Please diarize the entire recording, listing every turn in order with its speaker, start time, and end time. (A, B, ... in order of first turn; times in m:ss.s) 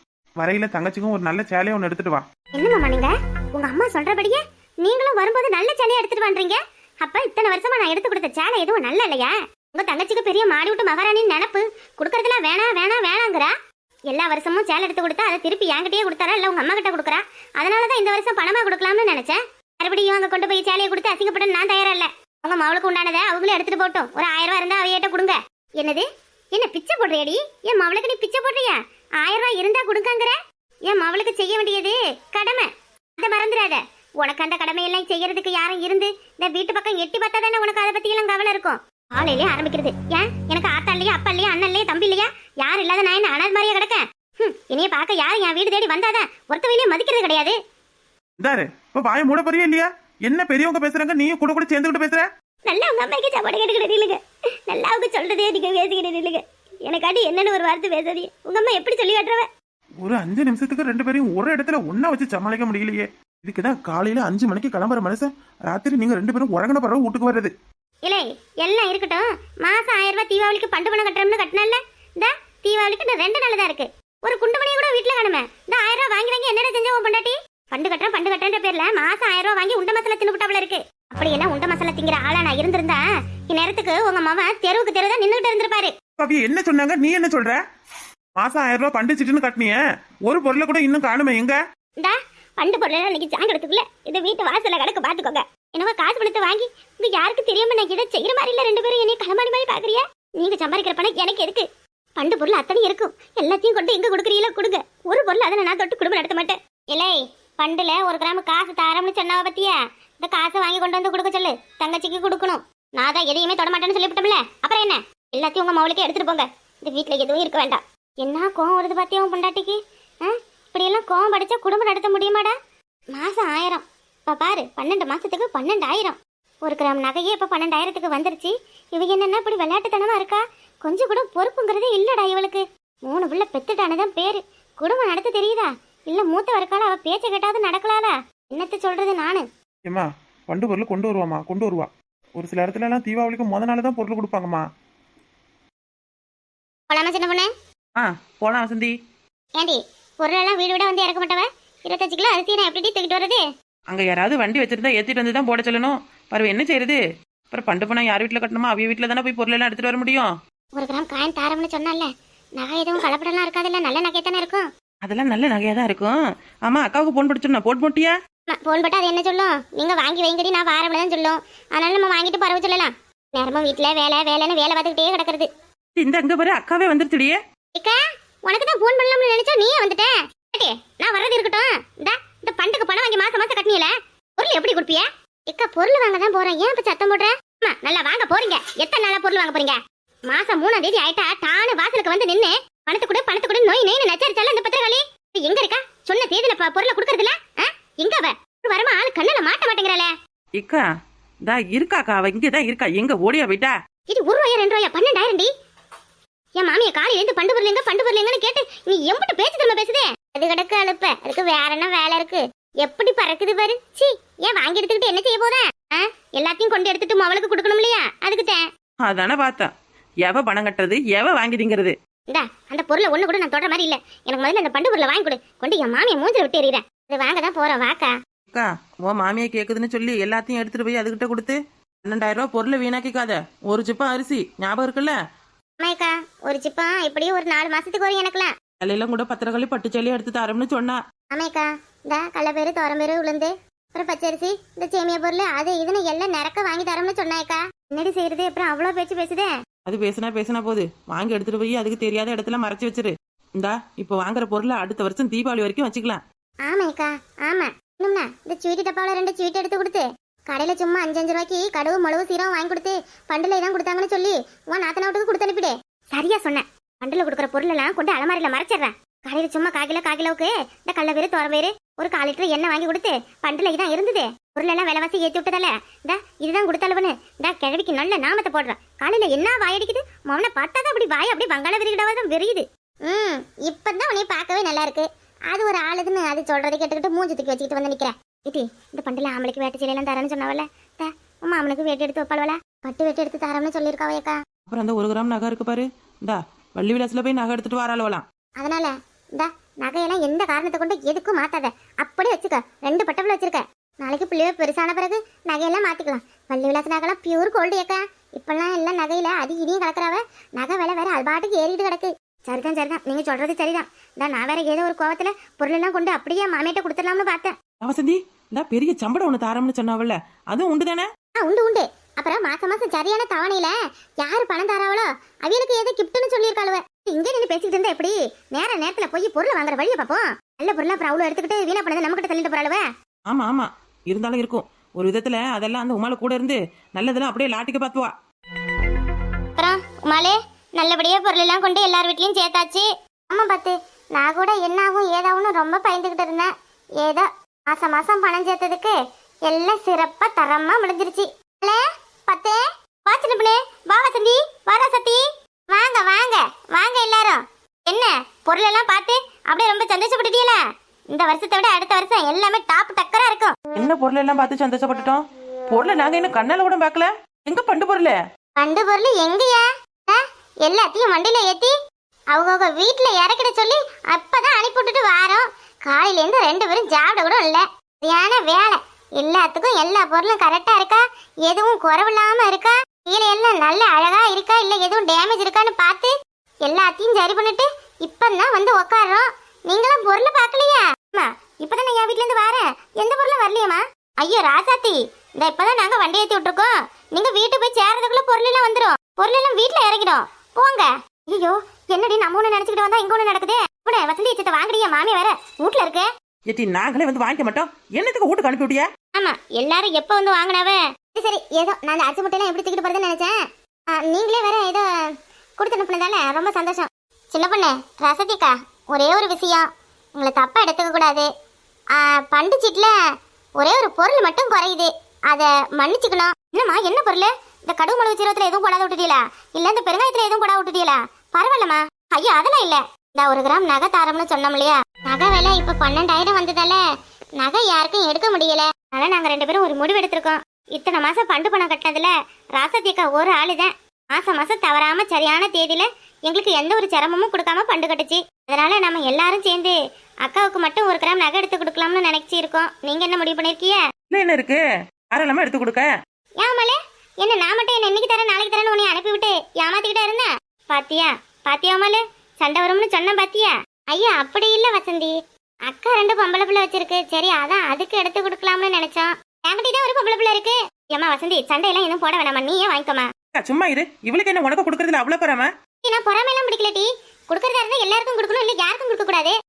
0:00.4-0:02.2 A
0:02.5-0:13.5 B
0:14.1-0:47.6 B
0:48.4-0:52.3 A
0:52.7-0:59.5 B
1:00.0-1:07.5 A
1:08.0-1:25.9 B
1:26.2-1:27.6 A
1:28.4-1:31.6 A
1:32.0-1:41.6 B
1:42.2-2:02.6 B
2:03.2-2:19.4 B
2:19.9-2:24.6 A
2:26.9-2:27.5 B
2:28.0-2:28.9 C
2:29.6-2:33.4 B
2:33.9-2:37.0 C
2:37.5-2:40.3 C
2:40.8-2:44.7 B
2:45.0-2:48.2 C
2:48.5-2:55.5 B
2:56.0-2:57.4 C
2:57.8-3:09.8 B
3:10.3-3:20.1 B
3:20.6-3:20.8 C
3:21.5-3:23.7 C
3:24.1-3:25.5 B
3:26.6-3:38.6 B
3:39.0-3:39.7 C
3:40.2-3:42.0 C
3:42.3-3:48.1 B
3:48.5-3:55.2 C
3:55.8-3:58.5 B
3:58.8-4:01.0 C
4:01.3-4:09.5 B
4:09.9-4:16.2 C
4:16.6-4:54.4 B
4:54.7-4:58.2 C
4:58.6-5:17.6 B
5:17.8-5:21.1 C
5:21.4-5:32.8 B
5:33.3-5:38.1 C
5:39.6-5:46.5 B
5:47.0-5:49.0 B
5:49.5-6:00.6 B
6:01.1-6:03.6 B
6:03.8-6:08.2 C
6:08.6-6:11.7 B
6:12.3-6:26.1 B
6:26.6-6:46.1 B
6:46.5-6:48.9 C
6:49.2-6:53.3 B
6:53.9-6:54.8 B
6:55.6-7:01.3 B
7:01.9-7:02.9 B
7:03.6-7:16.8 B
7:17.4-7:33.8 B
7:34.1-7:35.9 C
7:36.4-7:45.1 B
7:45.7-7:53.1 B
7:53.3-7:55.5 C
7:55.8-7:59.3 B